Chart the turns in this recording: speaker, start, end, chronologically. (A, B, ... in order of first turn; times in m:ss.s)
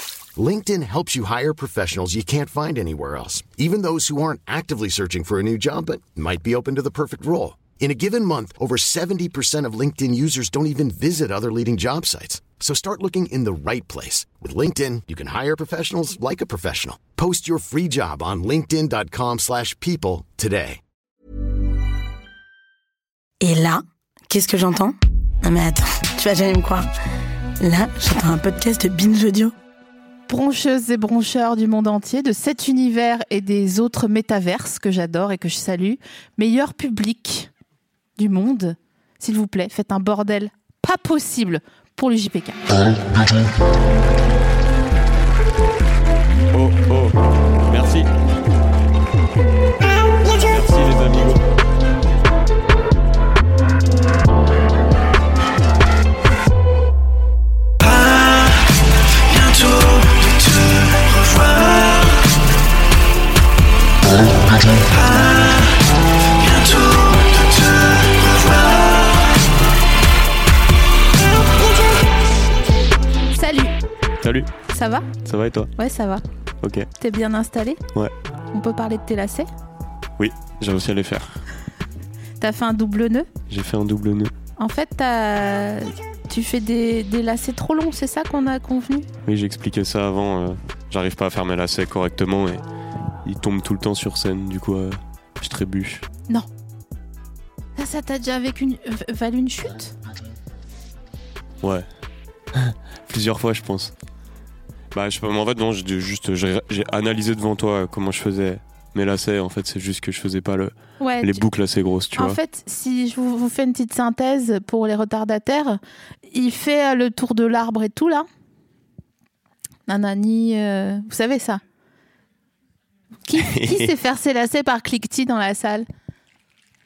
0:00.4-0:20.8 A
0:23.4-0:26.9 B
0:27.6-0:29.5 B
0:30.3-0:37.5 C
0:38.2-0:42.7 C
0:46.5-0:48.1 D
0:50.4-0:51.4 D
0:59.3-1:02.0 D
1:06.5-1:08.6 D
1:13.4-1:13.7 C
1:14.2-1:14.5 D
1:14.7-1:15.1 C
1:15.2-1:15.7 D
1:15.8-1:16.2 C
1:16.6-1:16.9 D
1:17.0-1:17.8 C
1:18.5-1:19.5 C
1:20.2-1:21.4 D
1:22.4-1:23.3 C
1:23.5-1:24.3 D
1:24.6-1:29.1 C
1:29.3-1:32.6 D
1:33.2-1:36.1 D
1:37.8-1:39.9 C
1:41.6-1:41.9 D
1:42.5-1:43.9 D
1:44.9-1:52.4 D
1:51.0-1:51.4 C
1:52.2-1:55.8 C
1:56.3-1:58.3 C
1:59.9-2:01.6 C
2:03.3-2:05.9 C
2:03.4-2:03.9 D